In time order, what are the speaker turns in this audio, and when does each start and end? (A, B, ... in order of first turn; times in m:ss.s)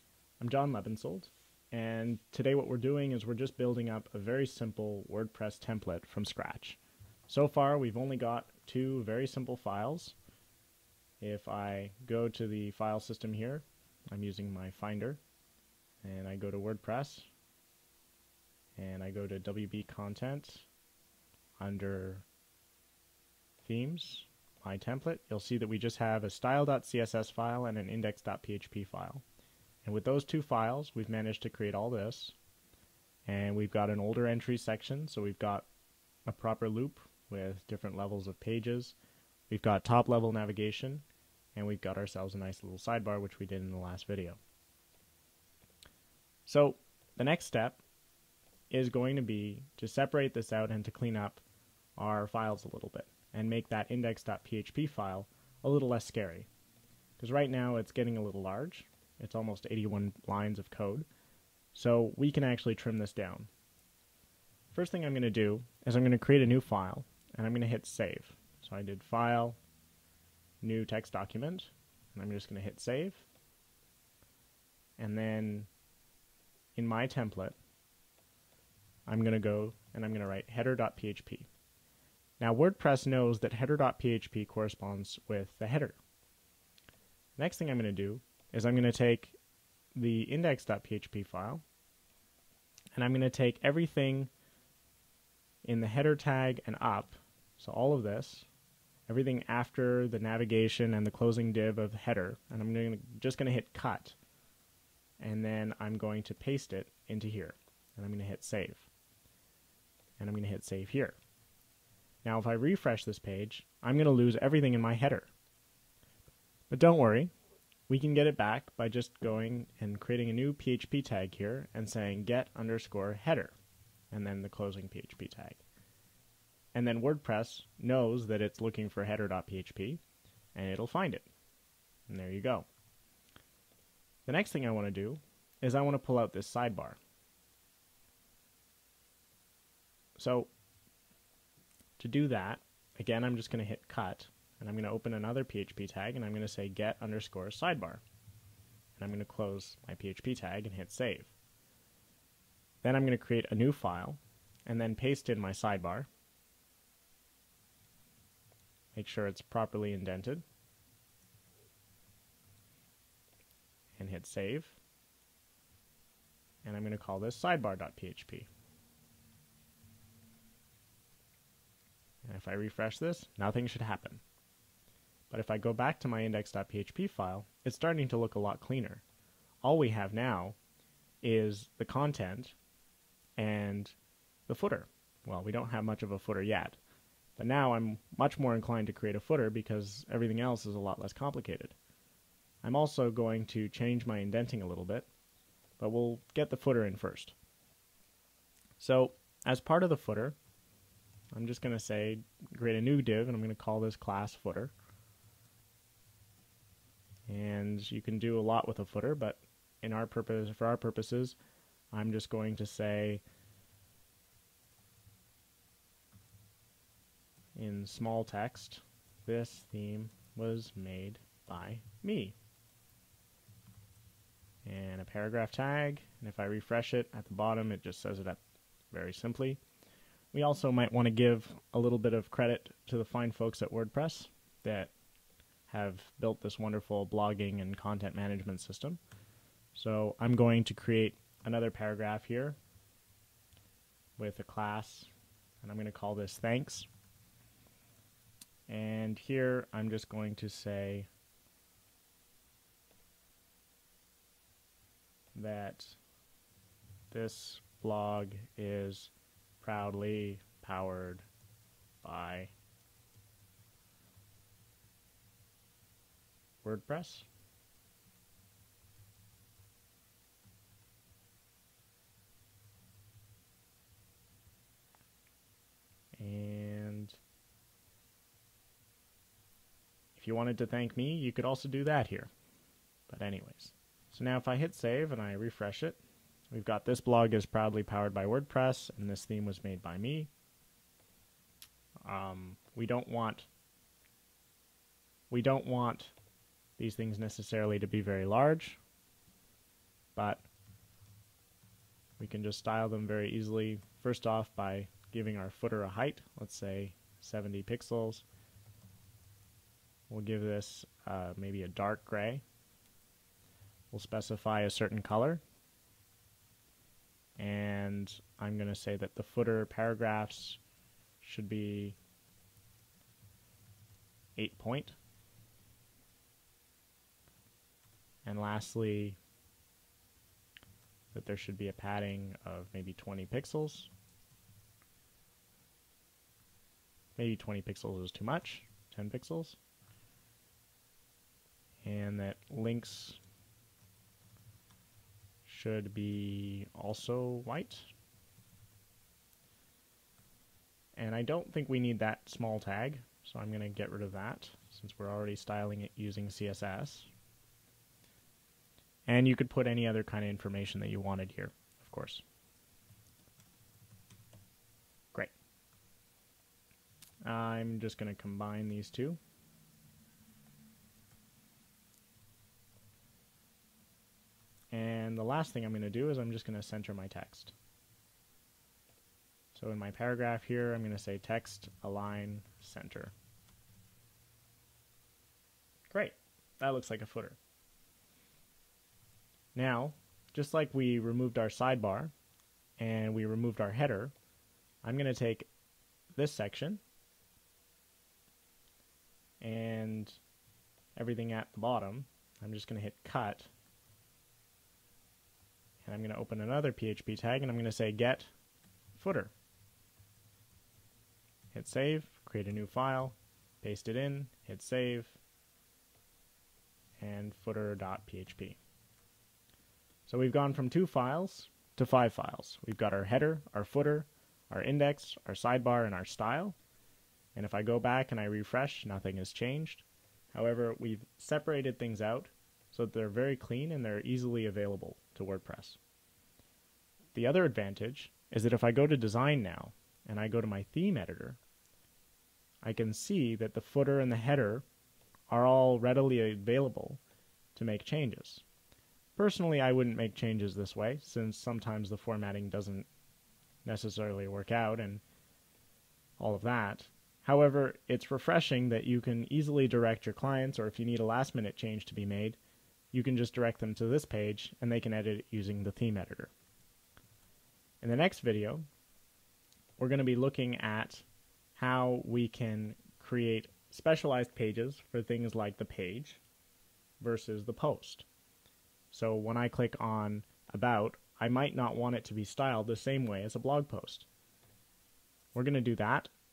0:00.4-0:10.2 A
0:11.2-0:15.2 A
0:16.0-0:17.3 A
0:18.8-0:20.6 A
0:21.6-0:22.2 A
0:23.6-0:29.2 A
0:29.8-0:32.4 A
0:33.3-0:35.7 A
0:36.3-0:39.0 A
0:39.5-0:44.4 A
0:46.4-0:47.8 A
0:48.7-0:51.4 A
0:52.0-0:56.5 A
0:57.2-1:01.1 A
1:01.7-1:03.5 A
1:04.7-1:09.6 A
1:10.6-1:13.3 A
1:15.0-1:15.7 A
1:16.8-1:17.6 A
1:19.1-1:21.5 A
1:22.4-1:26.0 A
1:27.4-1:29.4 A
1:30.0-1:31.6 A
1:33.0-1:34.3 A
1:35.6-1:38.5 A
1:39.1-1:44.2 A
1:45.2-1:48.9 A
1:50.2-1:51.2 A
1:52.2-1:55.3 A
1:56.7-1:57.3 A
1:57.9-2:03.6 A
2:04.1-2:05.6 A
2:06.7-2:10.0 A
2:10.5-2:11.3 A
2:12.1-2:12.7 A
2:14.2-2:17.0 A
2:20.2-2:20.5 A
2:22.0-2:28.0 A
2:29.0-2:31.3 A
2:32.8-2:36.1 A
2:38.9-2:40.4 A
2:44.0-2:44.8 A
2:46.6-2:48.5 A
2:52.2-2:54.2 A
2:55.3-2:59.0 A
2:59.6-3:00.6 A
3:01.2-3:02.6 A
3:03.4-3:03.9 A
3:04.5-3:06.8 A
3:07.4-3:11.8 A
3:12.6-3:15.1 A
3:15.8-3:17.4 A
3:18.8-3:20.4 A
3:21.3-3:24.7 A
3:27.3-3:31.4 A
3:31.9-3:33.2 A
3:37.5-3:42.3 A
3:44.6-3:48.4 A
3:48.9-3:49.6 A
3:50.3-3:54.9 A
3:55.7-3:59.0 A
3:59.8-4:02.6 A
4:04.2-4:05.1 A
4:05.6-4:06.9 A
4:08.7-4:11.1 A
4:15.3-4:16.0 A
4:17.1-4:21.2 A
4:22.0-4:22.5 A
4:26.6-4:27.3 A
4:36.2-4:37.2 A
4:40.2-4:42.3 A
4:43.1-4:46.0 A
4:46.5-4:50.3 A
4:52.0-4:53.5 A
4:55.3-4:56.1 A
4:56.8-4:58.8 A
5:00.2-5:00.5 A
5:02.2-5:08.2 A
5:10.1-5:12.4 A
5:13.9-5:15.4 A
5:17.4-5:20.6 A
5:21.2-5:22.0 A
5:24.4-5:25.0 A
5:28.2-5:29.2 A
5:31.1-5:33.9 A
5:37.2-5:39.6 A
5:41.8-5:43.2 A
5:45.5-5:47.9 A
5:51.0-5:57.1 A
5:59.1-6:02.2 A
6:07.2-6:09.2 A
6:14.7-6:17.5 A
6:19.5-6:23.1 A
6:25.9-6:27.4 A
6:29.6-6:32.1 A
6:32.8-6:34.1 A
6:34.8-6:35.5 A
6:36.2-6:36.8 A
6:39.4-6:40.2 A
6:41.0-6:43.5 A
6:45.8-6:48.3 A
6:48.9-6:49.3 A
6:51.5-6:55.2 A
6:57.0-6:58.6 A
7:00.1-7:06.6 A
7:07.4-7:15.8 A
7:17.2-7:21.4 A
7:22.6-7:24.6 A
7:25.3-7:27.0 A
7:27.6-7:28.4 A
7:29.2-7:32.9 A
7:33.6-7:35.0 A
7:36.2-7:42.4 A
7:42.9-7:46.3 A
7:47.8-7:48.7 A
7:49.8-7:56.2 A
7:57.0-7:58.1 A
7:58.9-8:04.1 A
8:05.4-8:06.1 A